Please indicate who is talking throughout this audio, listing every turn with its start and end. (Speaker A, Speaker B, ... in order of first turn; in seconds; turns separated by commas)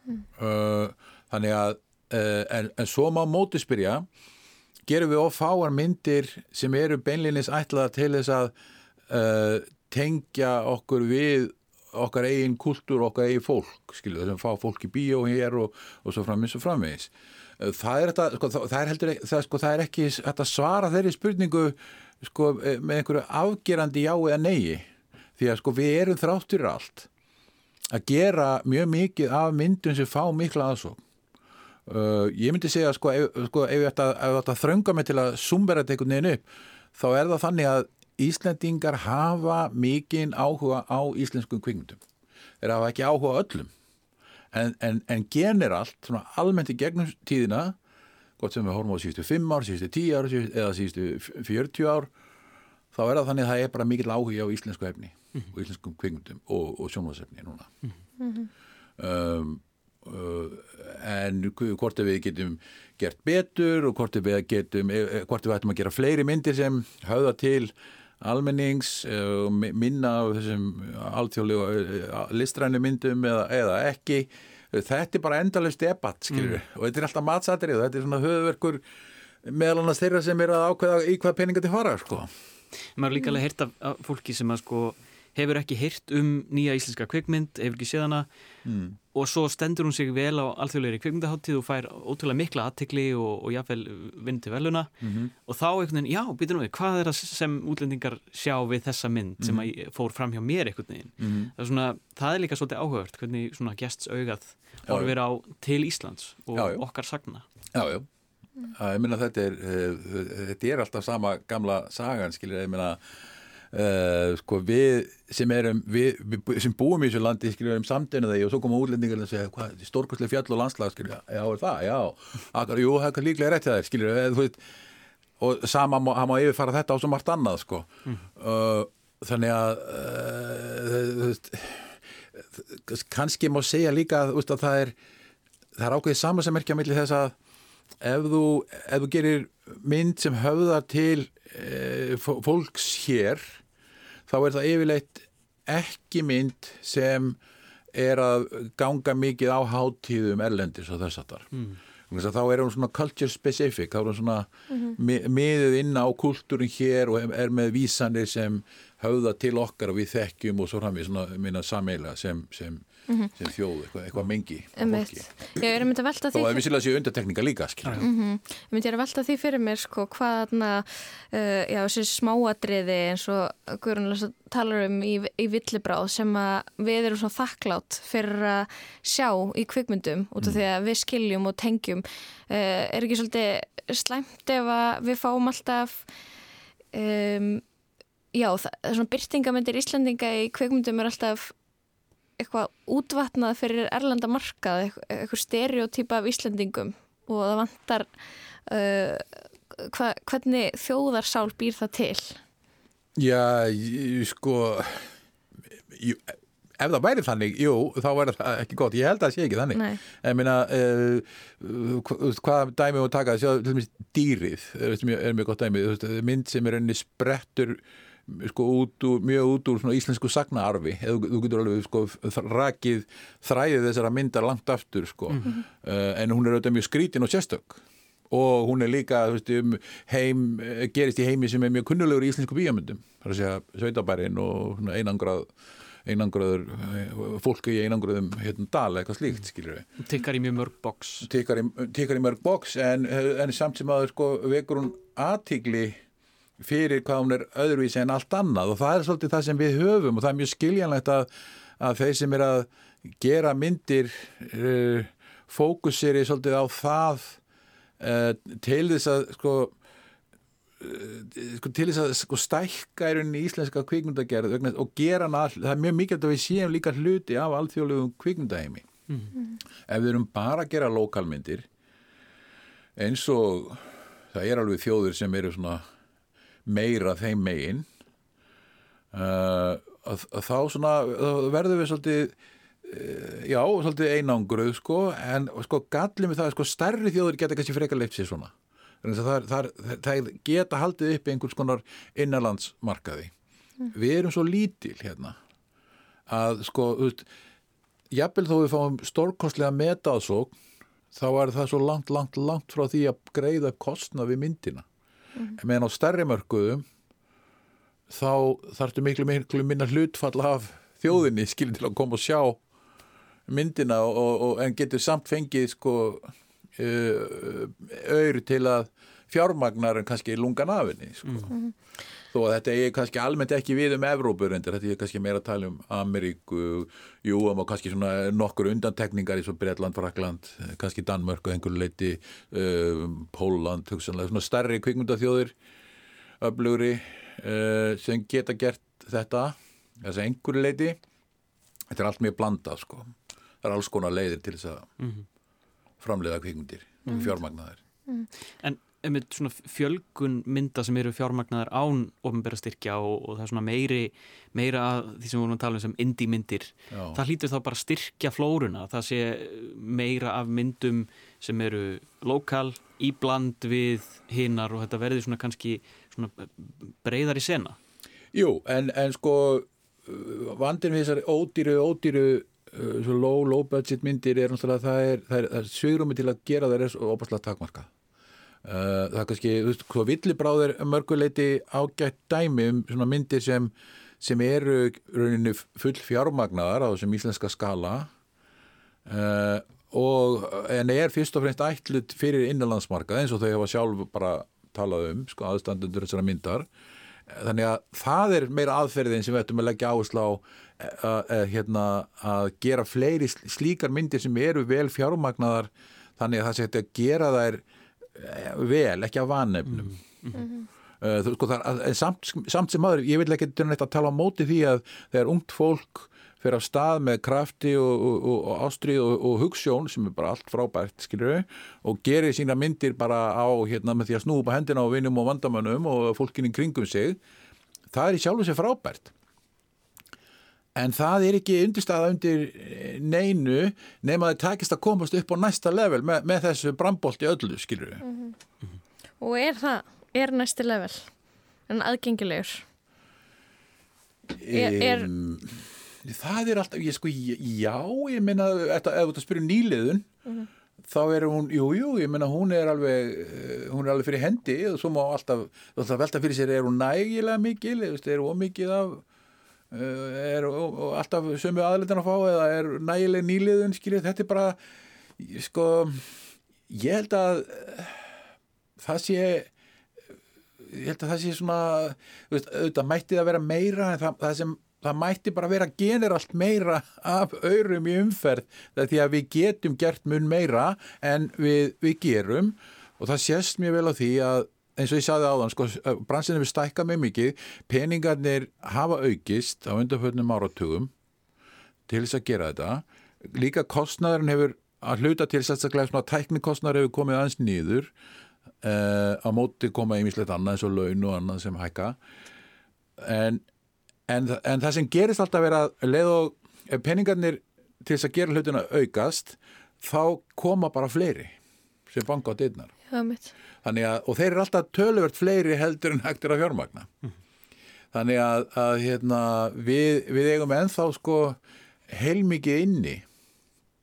Speaker A: 0.4-4.0, Speaker A: 4.8-8.5, Speaker A: 9.1-24.8, Speaker A: 25.4-27.1, Speaker A: 27.9-31.0, Speaker A: 31.9-42.0, Speaker A: 42.6-43.7, Speaker A: 44.5-47.8, Speaker A: 48.4-52.1, Speaker A: 52.9-57.7, Speaker B: 58.2-58.5, Speaker A: 59.0-78.8, Speaker C: 76.3-76.6, Speaker A: 79.4-82.3, Speaker C: 83.0-88.3, Speaker A: 88.6-89.0, Speaker C: 89.1-94.9, Speaker A: 95.0-95.3, Speaker C: 95.5-107.5, Speaker A: 99.4-99.7, Speaker A: 101.2-101.5, Speaker A: 104.8-105.1, Speaker A: 106.5-106.8, Speaker A: 107.7-108.1, Speaker A: 108.6-113.0, Speaker A: 113.7-124.6, Speaker A: 125.4-134.9, Speaker A: 135.8-137.3, Speaker A: 138.0-143.6, Speaker A: 144.3-147.4, Speaker A: 147.9-162.8, Speaker B: 154.7-155.0, Speaker A: 163.3-165.3, Speaker B: 164.8-166.6, Speaker A: 166.3-168.0, Speaker B: 168.0-186.0, Speaker B: 186.9-187.6, Speaker B: 188.3-191.5, Speaker B: 192.4-198.1, Speaker B: 198.7-202.4, Speaker A: 203.2-205.1, Speaker A: 205.9-235.5, Speaker B: 209.7-210.0, Speaker A: 236.1-239.8, Speaker C: 240.0-241.3, Speaker A: 241.2-246.0, Speaker A: 246.6-257.4, Speaker A: 258.0-259.7, Speaker A: 260.8-268.9, Speaker A: 269.9-271.6, Speaker A: 273.0-275.8, Speaker A: 276.6-277.9, Speaker A: 279.1-293.3, Speaker A: 293.9-295.4, Speaker A: 296.3-297.3, Speaker A: 298.1-300.5, Speaker A: 301.1-304.8, Speaker A: 305.6-306.8, Speaker A: 308.1-312.6, Speaker A: 313.5-321.5, Speaker A: 322.3-335.5, Speaker A: 336.4-341.0, Speaker A: 341.9-344.9, Speaker C: 345.0-345.2, Speaker A: 346.0-347.8, Speaker C: 348.6-367.8, Speaker A: 356.9-357.2, Speaker A: 368.3-377.9, Speaker A: 378.6-388.1, Speaker A: 389.1-396.7, Speaker A: 397.3-407.6, Speaker A: 408.1-410.0, Speaker C: 409.7-410.4, Speaker B: 410.3-410.7, Speaker A: 411.0-427.2, Speaker A: 427.9-429.1, Speaker A: 430.8-438.0, Speaker B: 438.0-438.4, Speaker B: 439.2-441.1, Speaker B: 441.7-442.6, Speaker A: 444.4-450.1, Speaker B: 444.5-445.1, Speaker A: 450.9-459.0, Speaker A: 459.7-464.6, Speaker A: 465.2-468.1, Speaker A: 468.8-469.5, Speaker A: 470.6-490.9, Speaker A: 491.9-497.9, Speaker A: 498.6-502.0, Speaker A: 503.0-503.4, Speaker A: 504.1-511.3, Speaker A: 511.9-512.7, Speaker B: 512.9-513.3, Speaker A: 513.6-516.9, Speaker A: 517.9-523.0